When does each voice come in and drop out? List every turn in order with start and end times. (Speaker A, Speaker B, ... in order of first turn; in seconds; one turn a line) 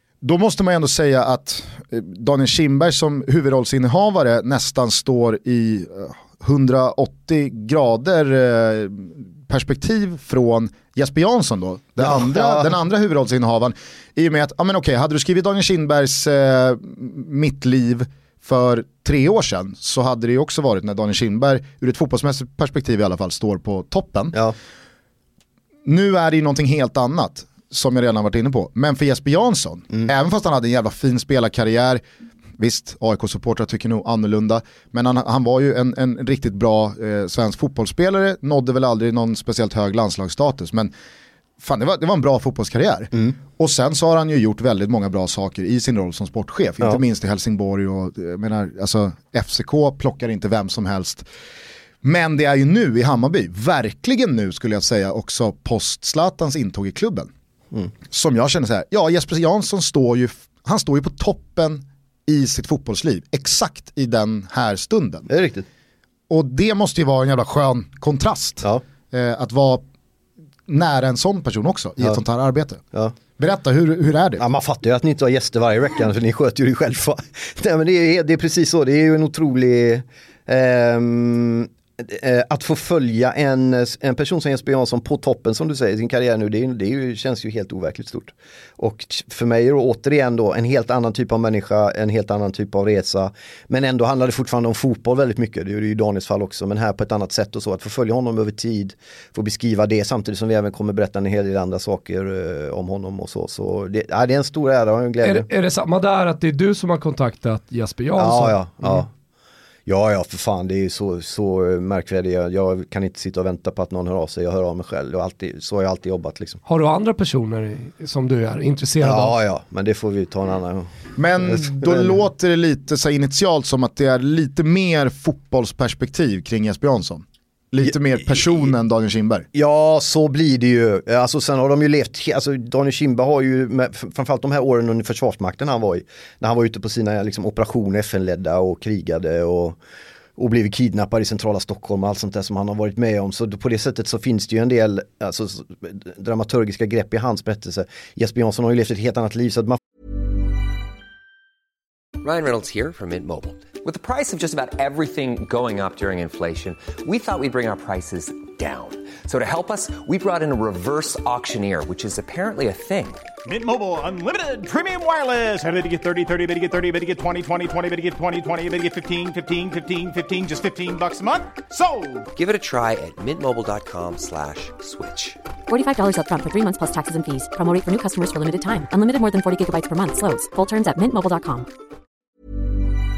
Speaker A: 0.2-24.4
Speaker B: 12.0-12.7
Speaker A: 25.8-32.0
Speaker A: 32.6-40.9
Speaker A: 41.6-51.3
Speaker A: 52.0-57.3
Speaker A: 58.1-65.3
Speaker B: 65.3-65.7
Speaker A: 66.3-69.8
Speaker A: 70.7-72.8
Speaker A: 73.4-74.4
Speaker B: 74.4-105.5
Speaker C: 105.2-109.0
Speaker B: 108.2-109.1
Speaker B: 109.9-116.6
Speaker C: 116.7-119.4
Speaker B: 119.0-120.9
Speaker A: 121.2-129.5
Speaker B: 121.5-122.1
Speaker B: 129.5-139.8
Speaker B: 140.4-149.8
Speaker D: 152.2-163.3
Speaker E: 163.4-172.3
Speaker D: 172.3-175.4
Speaker F: 175.7-181.7